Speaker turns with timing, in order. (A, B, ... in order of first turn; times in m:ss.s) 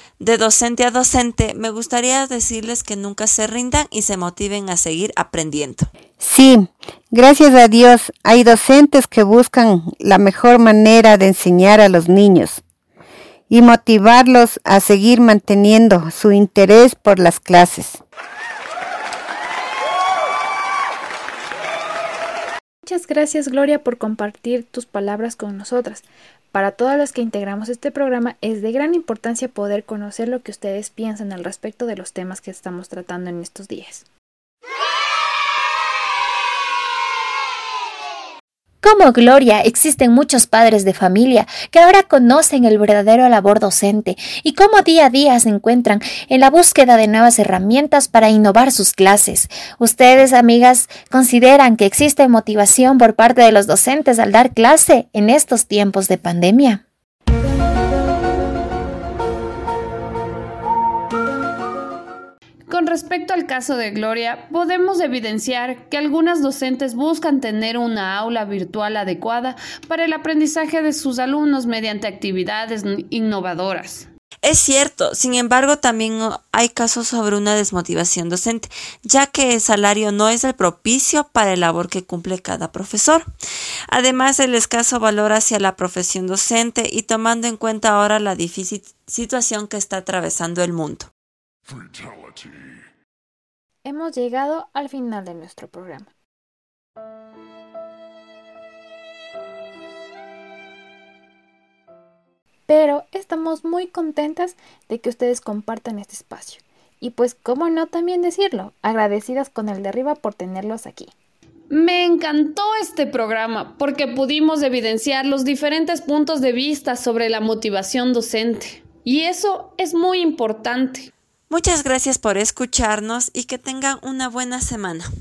0:00.2-0:05.9 A
0:06.2-0:12.6 B
0:13.5-0:18.0 B
0:22.8-0:34.0 C
0:38.8-0:56.8 D
1:02.7-1:14.1 E
1:14.4-1:23.3 A
1:23.9-1:31.1 A
1:33.8-1:36.1 C
1:42.7-1:51.1 C
1:51.7-2:01.1 E
2:01.5-2:05.1 A